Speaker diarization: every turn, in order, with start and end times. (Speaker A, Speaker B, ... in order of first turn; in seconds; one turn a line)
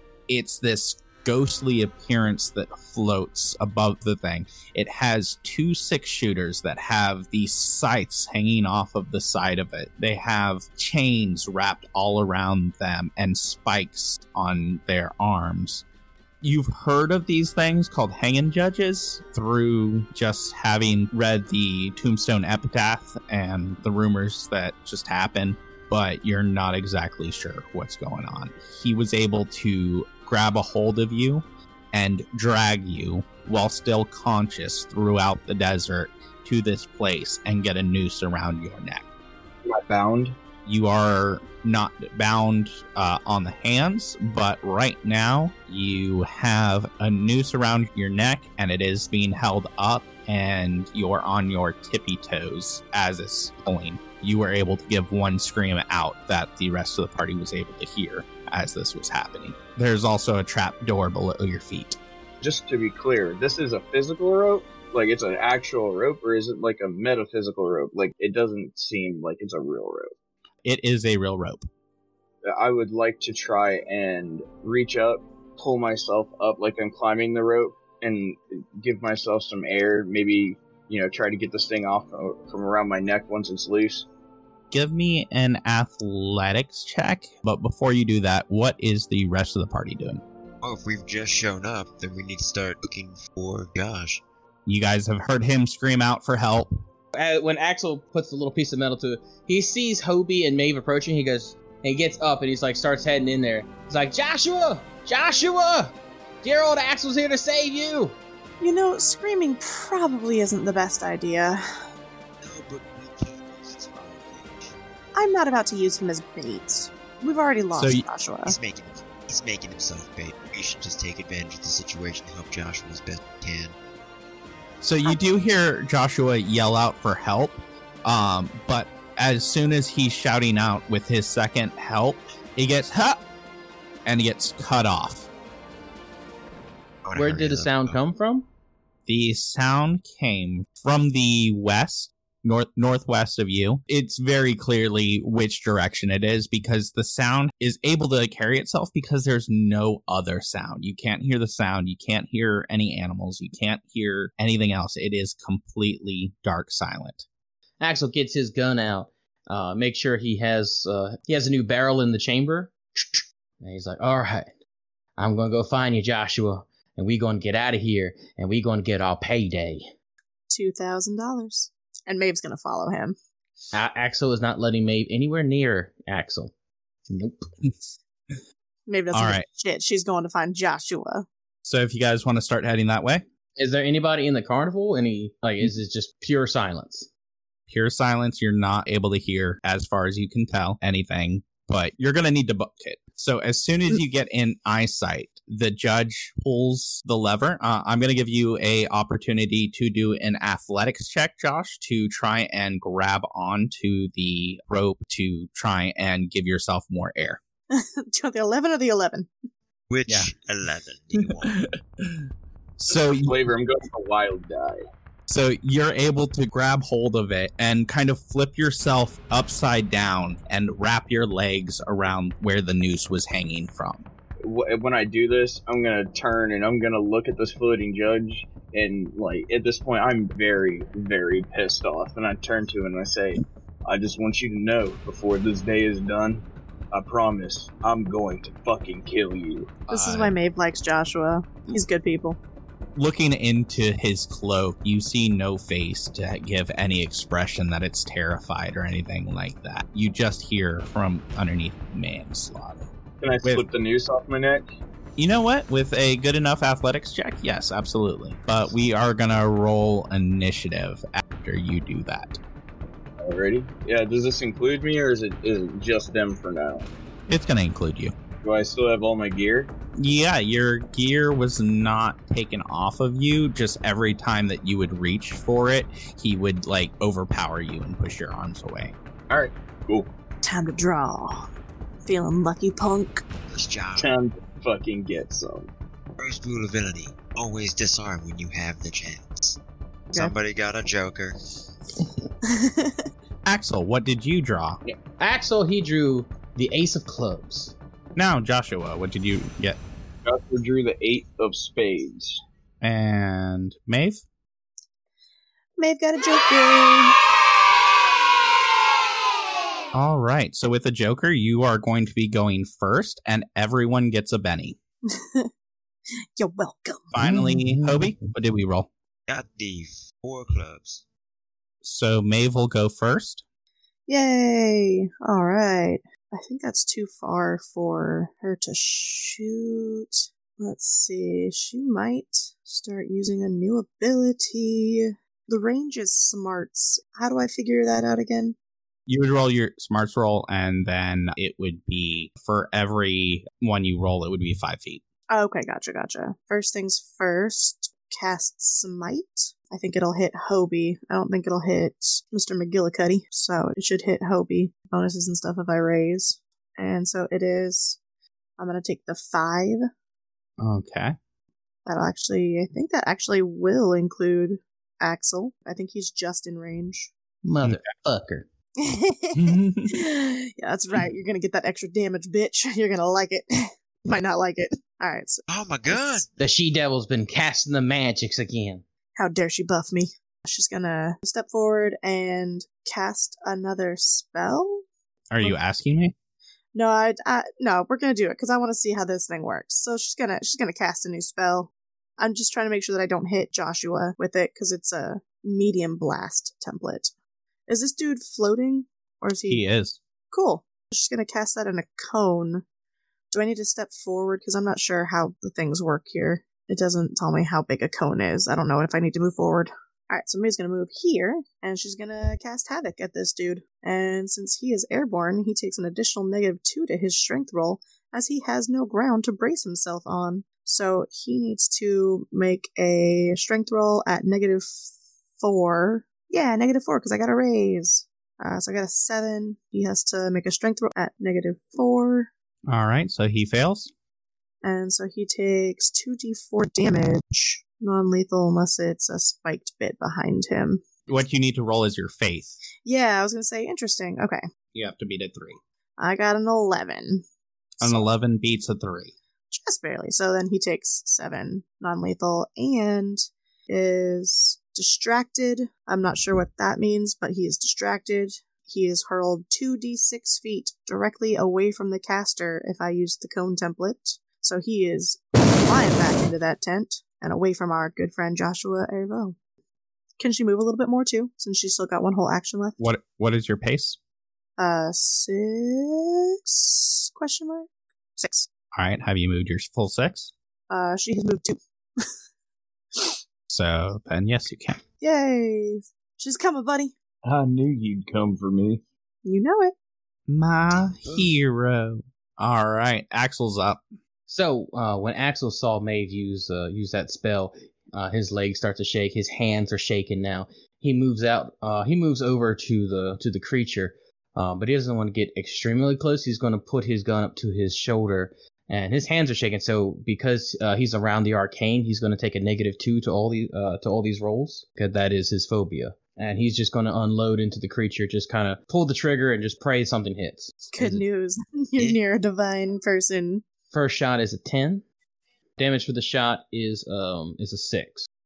Speaker A: 0.3-15.8
Speaker A: 16.4-39.0
Speaker B: 39.6-40.4
Speaker A: 40.6-62.0
Speaker B: 62.4-70.1
Speaker A: 70.6-71.7
Speaker B: 72.5-84.1
Speaker A: 84.7-90.2
Speaker C: 90.6-94.2
Speaker A: 94.7-96.7
Speaker D: 97.1-108.2
Speaker E: 108.6-111.6
Speaker C: 112.4-114.8
Speaker E: 115.1-118.5
Speaker A: 117.8-118.0
Speaker C: 118.4-123.7
Speaker A: 124.8-133.2
Speaker A: 134.0-135.3
Speaker C: 137.0-138.0
Speaker D: 137.1-138.5
Speaker A: 139.1-157.2
Speaker D: 157.8-164.5
Speaker D: 165.2-169.9
Speaker E: 170.5-173.1
Speaker D: 173.7-176.5
Speaker D: 177.1-177.4
Speaker E: 178.9-181.2
Speaker A: 179.1-179.4
Speaker A: 181.6-183.2
Speaker D: 183.6-187.1
Speaker A: 187.7-207.4
Speaker E: 207.7-209.3
Speaker C: 209.9-211.6
Speaker A: 212.8-213.5
Speaker B: 212.9-214.8
Speaker A: 215.3-224.0
Speaker B: 224.4-239.8
Speaker A: 239.9-240.3
Speaker E: 239.9-242.4
Speaker A: 242.9-252.9
Speaker B: 253.2-254.7
Speaker A: 255.2-262.4
Speaker B: 263.2-266.9
Speaker A: 267.3-268.1
Speaker B: 268.4-269.7
Speaker A: 270.0-278.9
Speaker B: 279.3-280.1
Speaker E: 280.4-281.4
Speaker E: 282.1-283.2
Speaker C: 283.5-284.1
Speaker B: 284.0-285.7
Speaker C: 286.2-289.6
Speaker C: 290.1-291.4
Speaker E: 292.4-293.0
Speaker A: 293.4-294.8
Speaker D: 295.2-297.8
Speaker A: 298.1-299.8
Speaker B: 300.2-302.4
Speaker A: 302.8-304.2
Speaker E: 305.8-307.2
Speaker A: 309.9-314.8
Speaker E: 315.1-315.5
Speaker E: 316.4-317.1
Speaker A: 317.1-318.9
Speaker D: 317.2-318.2
Speaker C: 319.3-321.0
Speaker A: 321.8-323.4
Speaker E: 324.1-338.6
Speaker A: 339.1-345.0
Speaker E: 345.3-358.0
Speaker E: 358.6-359.8
Speaker A: 360.6-361.1
Speaker E: 361.9-367.1
Speaker D: 367.4-368.5
Speaker E: 368.8-373.5
Speaker A: 369.4-370.0
Speaker E: 374.0-376.3
Speaker C: 375.5-376.3
Speaker D: 376.4-378.8
Speaker E: 379.1-384.8
Speaker A: 385.3-386.1
Speaker E: 386.7-397.1
Speaker E: 397.7-399.6
Speaker A: 399.5-400.0
Speaker E: 400.3-402.6
Speaker E: 403.3-424.9
Speaker E: 425.4-432.3
Speaker A: 432.7-433.9
Speaker E: 434.6-440.8
Speaker A: 441.1-442.6
Speaker E: 442.8-444.4
Speaker A: 444.7-445.6
Speaker E: 446.0-447.2
Speaker A: 447.8-449.1
Speaker E: 449.5-469.4
Speaker E: 470.2-472.8
Speaker A: 472.8-474.0
Speaker E: 474.6-478.5
Speaker A: 478.7-480.3
Speaker E: 480.7-482.1
Speaker A: 483.5-484.8
Speaker E: 485.0-486.9
Speaker B: 487.2-488.8
Speaker E: 489.2-489.7
Speaker A: 490.3-493.8
Speaker C: 490.7-491.3
Speaker D: 494.3-521.0
Speaker E: 520.7-523.4
Speaker D: 523.7-524.8
Speaker D: 525.6-528.1